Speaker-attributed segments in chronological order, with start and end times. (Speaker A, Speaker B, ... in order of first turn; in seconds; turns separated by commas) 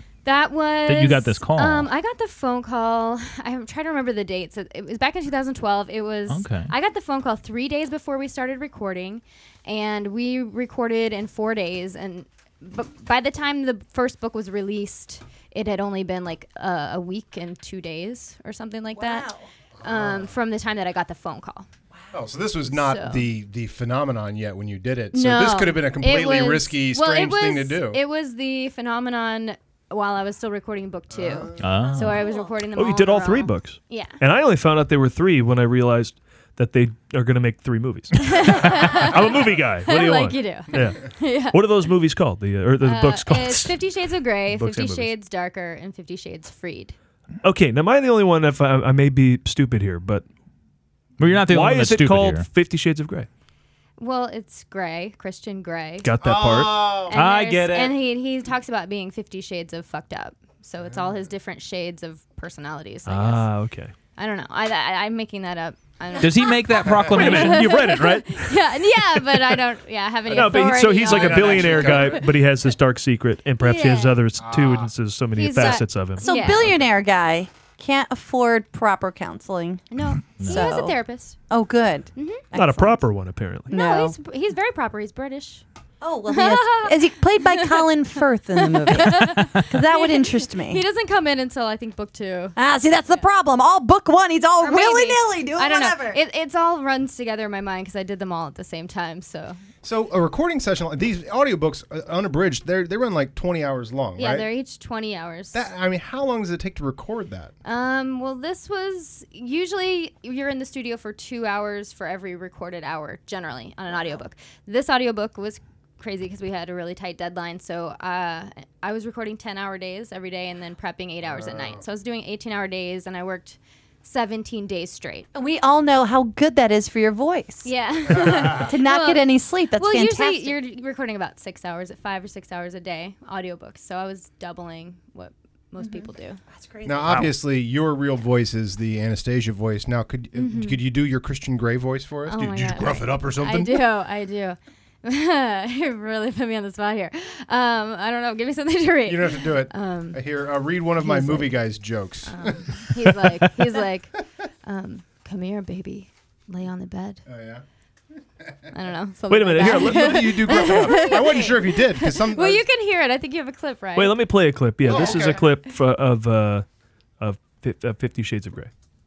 Speaker A: 0.2-19.3, Speaker B: 0.8-1.9, Speaker B: 6.3-6.7, Speaker C: 18.9-19.4, Speaker D: 19.8-20.3, Speaker A: 19.8-21.7, Speaker D: 22.1-28.0, Speaker A: 22.7-23.3, Speaker A: 25.1-34.2, Speaker D: 31.1-31.5, Speaker B: 31.6-32.2, Speaker E: 32.7-43.8, Speaker A: 38.2-41.9, Speaker A: 42.8-46.9, Speaker E: 44.5-45.1, Speaker E: 47.4-50.2, Speaker B: 51.2-52.5, Speaker E: 51.3-53.3, Speaker A: 54.0-56.1, Speaker E: 56.0-57.0, Speaker D: 56.2-57.2, Speaker A: 57.1-63.5, Speaker B: 57.1-58.0, Speaker D: 60.8-61.1, Speaker E: 63.1-63.9, Speaker A: 64.2-72.3, Speaker B: 66.2-67.7, Speaker E: 67.1-69.6, Speaker E: 70.3-76.8, Speaker D: 71.0-72.3, Speaker A: 73.6-74.3, Speaker D: 74.4-74.9, Speaker A: 75.3-76.7, Speaker C: 76.2-81.0, Speaker A: 79.9-81.4, Speaker B: 80.4-80.7, Speaker C: 81.5-83.0, Speaker A: 82.2-82.4, Speaker E: 82.5-83.7, Speaker C: 83.7-84.1, Speaker A: 83.7-85.6, Speaker C: 86.0-90.8, Speaker A: 86.3-87.9, Speaker A: 88.5-92.6, Speaker C: 92.5-96.2, Speaker A: 94.6-99.6, Speaker D: 99.8-104.5, Speaker A: 104.2-105.7, Speaker D: 105.5-107.5, Speaker A: 107.6-125.3, Speaker D: 121.2-121.8, Speaker C: 125.3-127.7, Speaker A: 127.6-136.4, Speaker C: 128.5-130.5, Speaker C: 135.8-137.2, Speaker D: 136.8-143.8, Speaker A: 140.3-140.8, Speaker A: 142.3-150.2, Speaker D: 149.1-152.8, Speaker A: 151.0-151.6, Speaker A: 152.2-154.1, Speaker A: 154.6-157.2, Speaker D: 157.3-157.6, Speaker A: 158.7-164.2, Speaker E: 159.3-160.5, Speaker D: 159.7-162.6, Speaker E: 163.9-166.6, Speaker D: 164.8-165.4, Speaker E: 167.2-168.7